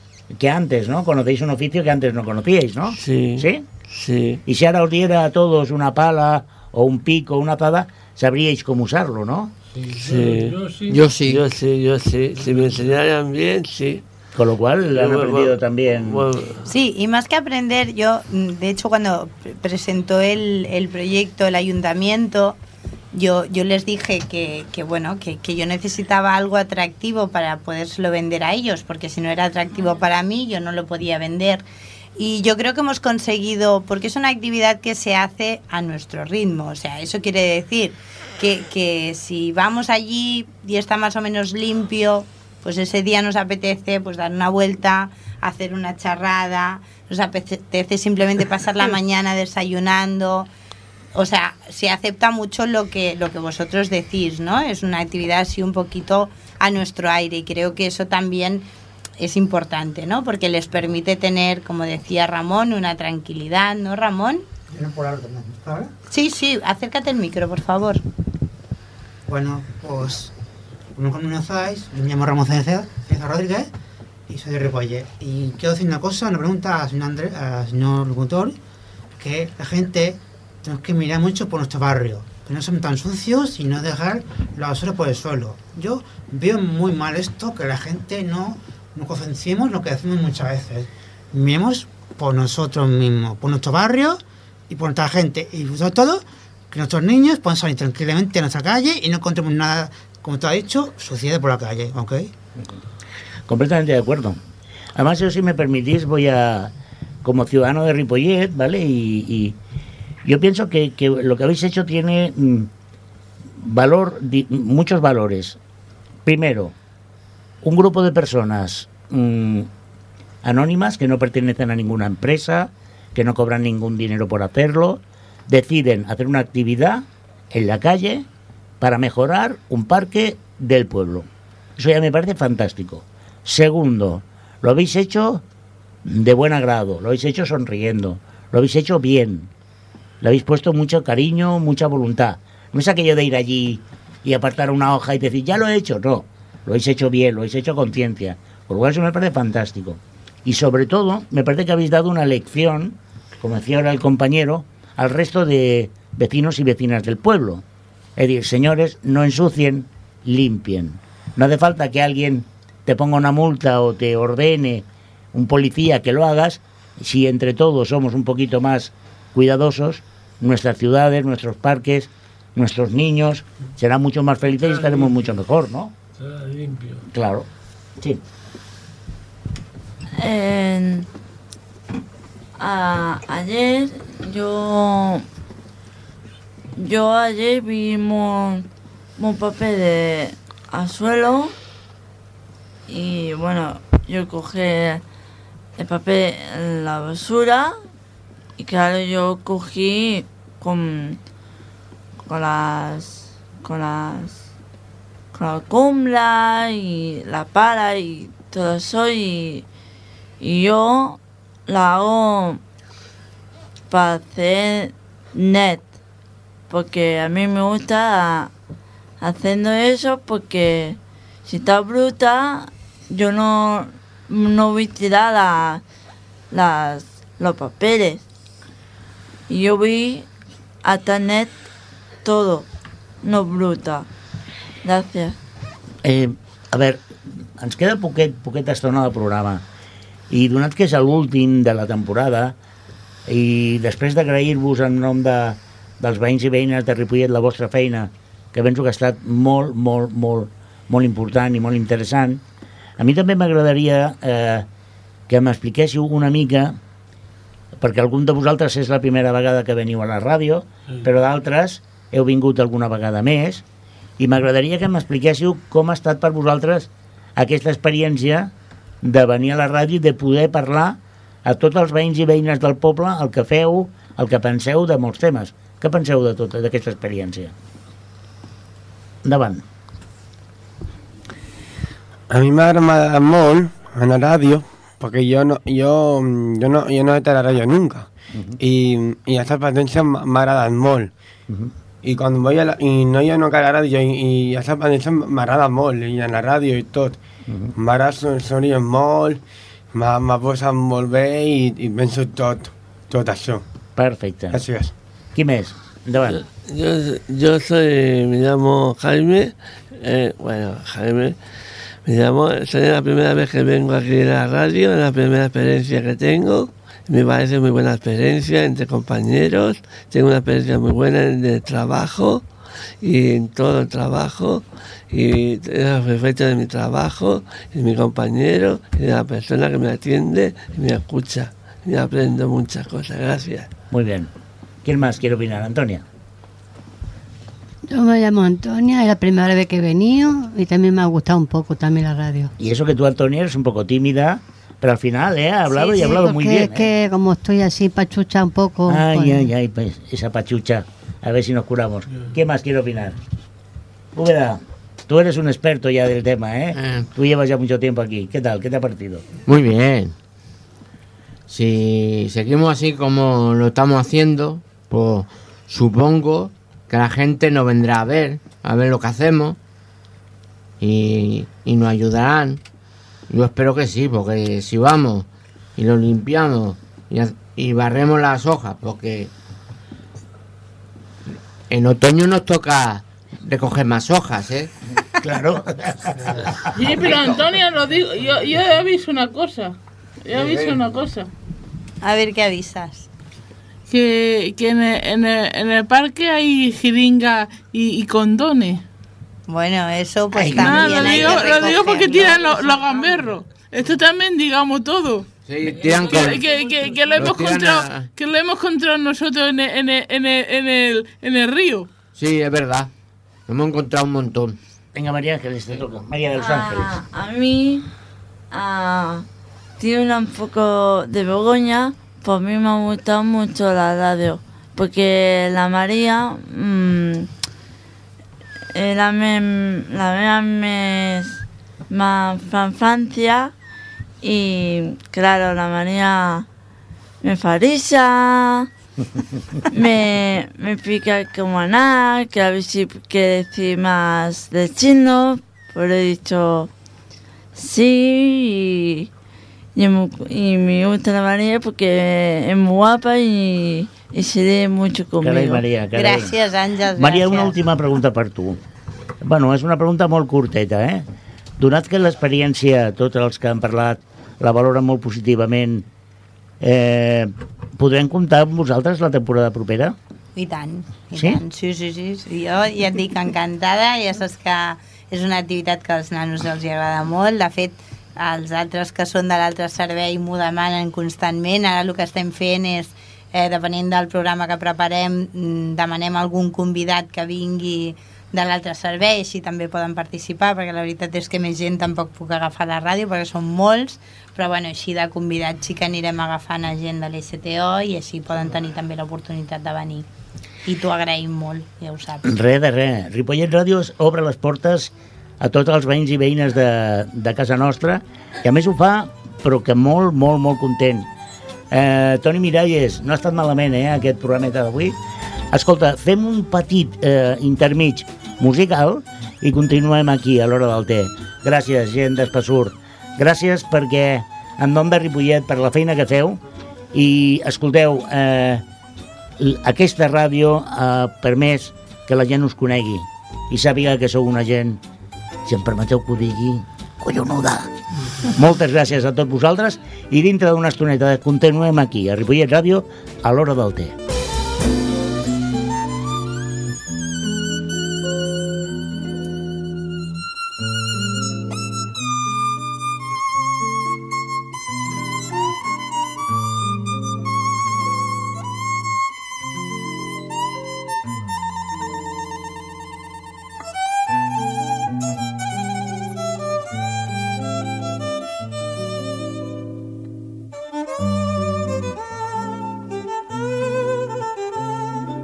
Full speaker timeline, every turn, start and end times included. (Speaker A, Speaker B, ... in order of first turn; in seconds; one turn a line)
Speaker A: 0.3-3.6
Speaker B: 3.0-4.4
Speaker A: 4.5-9.5
Speaker C: 9.7-11.1
Speaker B: 9.9-10.6
Speaker D: 10.9-11.4
Speaker B: 11.2-14.0
Speaker C: 12.4-12.7
Speaker A: 14.3-16.2
Speaker B: 14.9-16.6
Speaker E: 16.6-22.6
Speaker E: 23.1-31.6
Speaker E: 32.2-50.5
Speaker E: 51.1-58.6
Speaker E: 59.2-64.4
Speaker F: 64.7-65.9
Speaker E: 66.1-68.0
Speaker F: 69.3-70.3
Speaker F: 71.0-73.7
Speaker F: 74.3-78.6
Speaker F: 79.2-102.3
Speaker A: 103.5-104.4
Speaker A: 105.0-106.7
Speaker A: 107.2-109.5
Speaker A: 110.2-112.7
Speaker A: 113.6-115.6
Speaker A: 116.2-116.7
Speaker A: 117.6-119.7
Speaker A: 120.4-128.2
Speaker A: 128.8-135.4
Speaker A: 136.0-139.5
Speaker A: 140.2-157.6
Speaker A: 158.2-175.9
Speaker C: 174.5-175.2
Speaker C: 176.2-177.0
Speaker A: 177.1-177.5
Speaker G: 180.2-181.1
Speaker G: 182.6-185.2
Speaker G: 186.8-188.7
Speaker G: 189.2-191.5
Speaker G: 192.9-195.0
Speaker G: 195.8-197.8
Speaker G: 198.6-201.2
Speaker G: 202.3-204.4
Speaker G: 205.3-209.6
Speaker G: 210.4-212.6
Speaker G: 213.9-215.9
Speaker G: 216.7-218.5
Speaker G: 219.2-225.8
Speaker G: 226.5-228.2
Speaker G: 229.5-230.3
Speaker G: 230.8-231.6
Speaker G: 232.2-232.7
Speaker G: 233.2-234.1
Speaker G: 234.8-235.4
Speaker A: 236.0-239.6
Speaker A: 240.3-242.6
Speaker A: 243.3-252.4
Speaker A: 253.0-254.7
Speaker A: 255.3-256.8
Speaker A: 257.8-263.6
Speaker A: 264.2-277.5
Speaker A: 279.2-279.6
Speaker H: 282.3-288.1
Speaker H: 288.6-291.1
Speaker H: 292.0-297.2
Speaker A: 297.5-297.7
Speaker H: 297.8-299.4
Speaker H: 299.9-303.6
Speaker A: 303.9-304.6
Speaker H: 304.5-304.9
Speaker A: 305.3-306.4
Speaker B: 306.2-311.4
Speaker B: 312.0-322.4
Speaker B: 323.0-333.7
Speaker A: 333.9-334.3
Speaker A: 334.8-336.0
Speaker I: 337.9-342.5
Speaker A: 342.6-346.9
Speaker I: 345.7-349.5
Speaker A: 348.9-353.2
Speaker A: 354.1-359.2
Speaker D: 356.7-357.1
Speaker D: 359.4-360.1
Speaker D: 361.5-369.6
Speaker D: 370.8-372.6
Speaker D: 373.3-379.3
Speaker D: 381.7-384.7
Speaker A: 385.2-387.1
Speaker J: 386.7-391.3
Speaker D: 390.4-390.7
Speaker E: 392.0-393.1
Speaker J: 393.9-398.8
Speaker E: 399.5-402.5
Speaker A: 400.3-401.7
Speaker J: 400.5-405.3
Speaker D: 405.4-406.4
Speaker C: 405.6-407.5
Speaker J: 406.1-411.9
Speaker D: 407.1-408.1
Speaker D: 412.1-412.9
Speaker D: 413.5-414.6
Speaker A: 414.9-417.0
Speaker G: 416.4-417.9
Speaker G: 418.5-419.2
Speaker G: 419.8-427.3
Speaker G: 428.7-433.5
Speaker G: 434.2-436.4
Speaker G: 437.2-438.7
Speaker G: 439.7-446.7
Speaker G: 447.5-449.1
Speaker G: 449.7-455.6
Speaker A: 455.2-456.3
Speaker E: 455.9-457.5
Speaker A: 457.0-458.6
Speaker A: 459.2-461.0
Speaker A: 461.6-465.9
Speaker A: 466.6-469.9
Speaker E: 470.4-500.1
Speaker A: 471.1-471.4
Speaker E: 500.6-502.2
Speaker A: 502.2-511.1
Speaker A: 511.7-515.0
Speaker A: 515.5-526.4
Speaker A: 526.9-528.6
Speaker A: 529.4-534.8
Speaker A: 535.4-544.0